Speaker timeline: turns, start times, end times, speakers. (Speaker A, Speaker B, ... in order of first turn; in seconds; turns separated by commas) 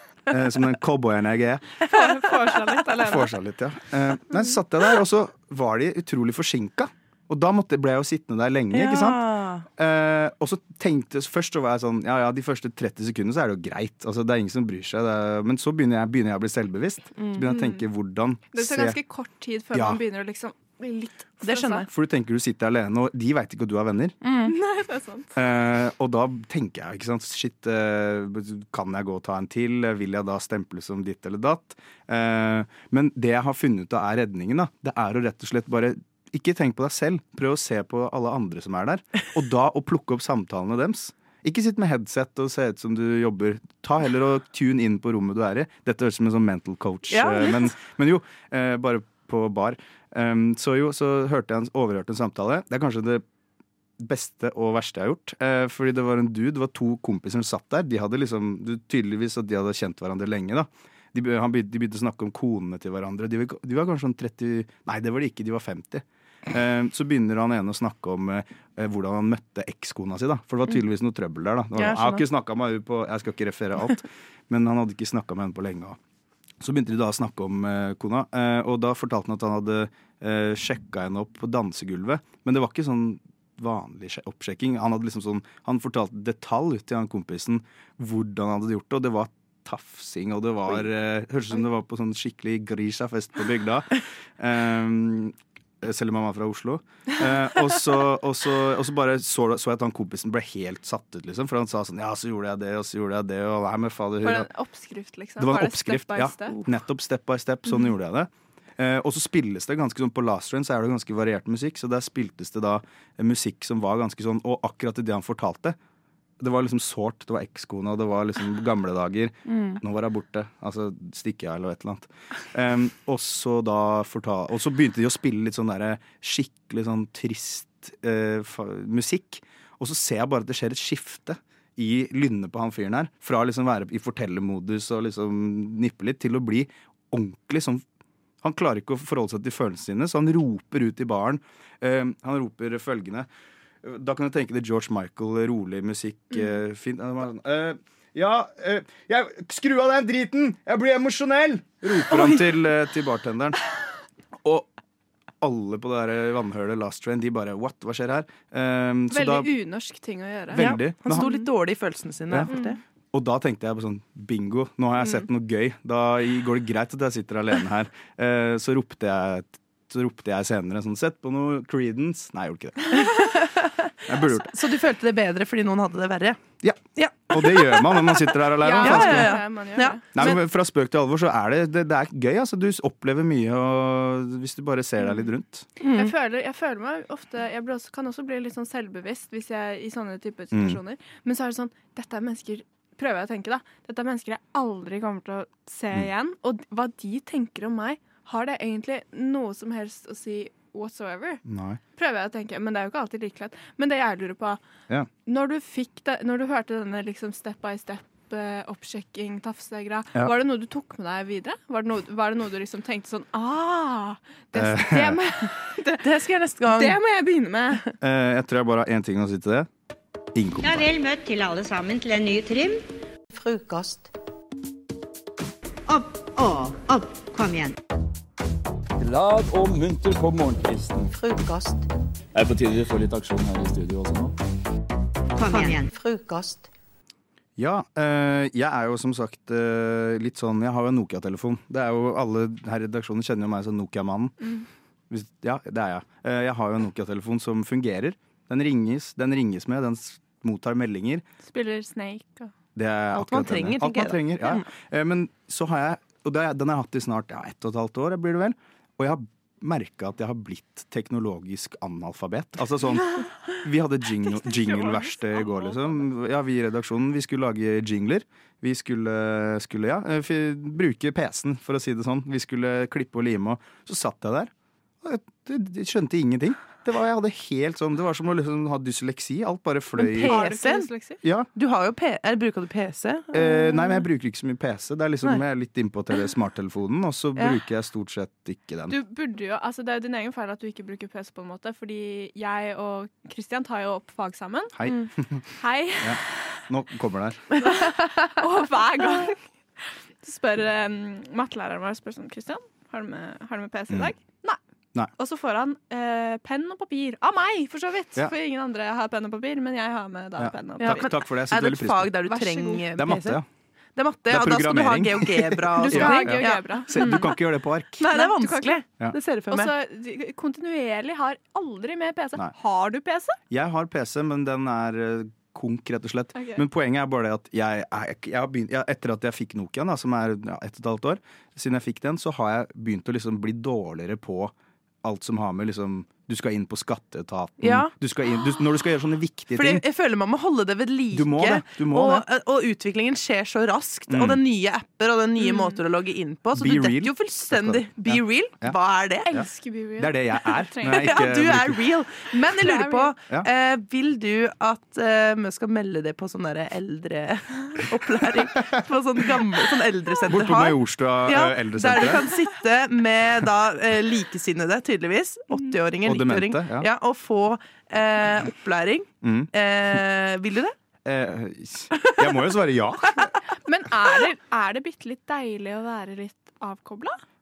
Speaker A: 0.3-1.7, Speaker B: 1.9-3.3, Speaker C: 1.9-2.2, Speaker A: 3.0-9.2, Speaker C: 8.7-9.7, Speaker A: 9.8-19.0, Speaker B: 17.4-17.8, Speaker B: 18.5-21.9, Speaker A: 19.7-20.0, Speaker C: 21.4-21.9, Speaker A: 21.9-24.2, Speaker B: 24.4-25.3, Speaker A: 25.3-53.2, Speaker C: 47.1-47.7, Speaker A: 54.0-76.0, Speaker C: 71.8-72.2, Speaker A: 76.6-104.5, Speaker B: 104.2-106.7, Speaker A: 105.4-115.8, Speaker A: 116.4-137.8, Speaker A: 138.4-143.3, Speaker A: 143.8-153.6, Speaker B: 152.1-152.4, Speaker A: 154.4-154.7, Speaker A: 155.4-159.5, Speaker B: 159.1-161.5, Speaker A: 160.5-161.3, Speaker C: 160.5-162.8, Speaker B: 162.5-162.8, Speaker A: 163.1-173.1, Speaker C: 172.9-173.7, Speaker A: 174.1-174.5, Speaker C: 174.4-176.4, Speaker A: 176.6-179.4, Speaker C: 176.9-180.4, Speaker B: 178.6-180.1, Speaker A: 180.1-185.7, Speaker C: 185.8-186.1, Speaker B: 185.9-201.4, Speaker A: 190.5-190.8, Speaker A: 201.4-201.8, Speaker B: 202.0-204.6, Speaker B: 205.2-216.1, Speaker A: 214.5-215.2, Speaker C: 216.0-217.0, Speaker B: 216.7-217.9, Speaker A: 218.0-219.7, Speaker A: 220.3-220.8, Speaker D: 220.6-224.1, Speaker D: 225.9-227.7, Speaker E: 229.0-231.1, Speaker D: 231.1-231.8, Speaker E: 232.3-234.3, Speaker D: 235.3-236.7, Speaker A: 237.6-244.4, Speaker A: 245.1-251.2, Speaker B: 251.4-252.5, Speaker A: 252.8-274.5, Speaker C: 253.2-254.2, Speaker B: 264.2-265.7, Speaker A: 275.0-280.4, Speaker B: 280.0-281.2, Speaker C: 280.2-280.9, Speaker A: 281.2-281.5, Speaker C: 281.6-284.0, Speaker A: 283.3-289.0, Speaker B: 288.9-295.1, Speaker A: 294.7-297.4, Speaker B: 295.6-296.3, Speaker B: 297.6-304.6, Speaker A: 303.9-304.1, Speaker B: 305.2-311.2, Speaker A: 310.4-312.1, Speaker C: 310.8-313.4, Speaker B: 312.3-312.9, Speaker A: 313.0-313.4, Speaker C: 314.0-317.4, Speaker A: 314.3-318.2, Speaker B: 315.8-317.4, Speaker B: 318.0-323.4, Speaker C: 318.0-319.7, Speaker A: 323.5-339.8, Speaker B: 326.4-326.6, Speaker C: 337.6-337.9, Speaker C: 339.6-349.5, Speaker A: 341.1-342.2, Speaker A: 344.1-344.4, Speaker B: 345.4-345.8, Speaker A: 346.6-348.8, Speaker B: 349.3-351.4, Speaker A: 349.3-351.8, Speaker C: 350.8-370.8, Speaker B: 352.5-353.1, Speaker A: 360.3-362.2, Speaker A: 366.0-366.9, Speaker A: 369.2-369.5, Speaker A: 371.1-373.2, Speaker B: 373.6-377.2